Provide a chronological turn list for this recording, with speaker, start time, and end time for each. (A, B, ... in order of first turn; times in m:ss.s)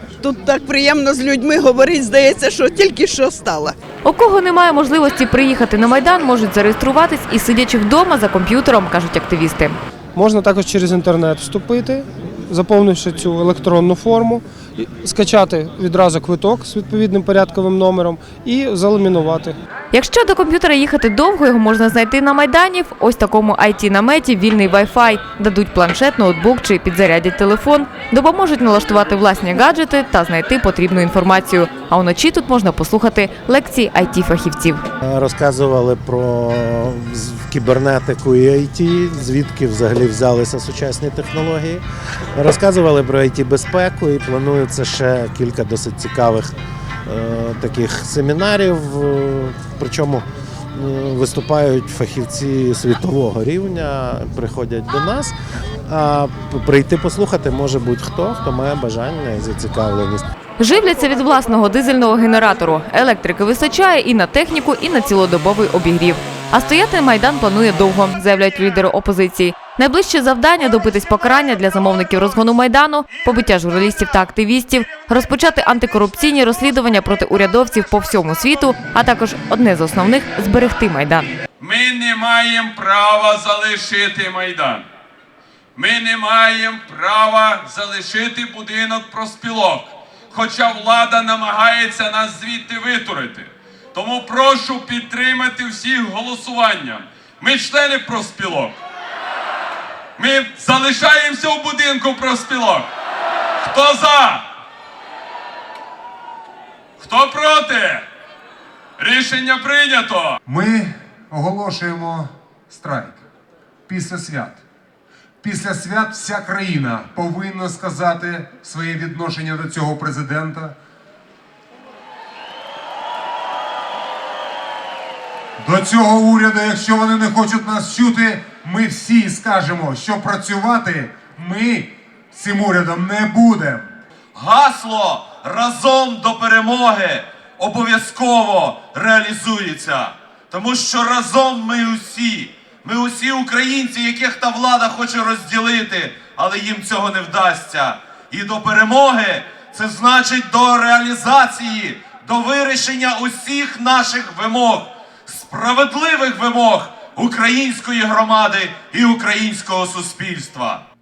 0:00.2-0:03.8 A
0:04.0-0:09.8 B
0:10.1-0:19.5 C
0:19.9-0:34.8 B
0:35.0-0:41.8 D
0:42.3-0:46.5 D
0:47.0-0:55.3 D
0:55.9-1:00.2 D
1:00.6-1:21.3 B
1:21.6-1:24.8 E
1:25.7-1:38.8 E
1:40.2-1:42.8 E
1:43.6-1:44.4 E
1:47.0-1:48.0 E
1:49.0-1:50.4 E
1:50.5-1:53.2 F
1:53.9-1:54.6 F
1:55.4-2:00.7 F
2:05.6-2:13.9 F
2:14.3-2:40.8 G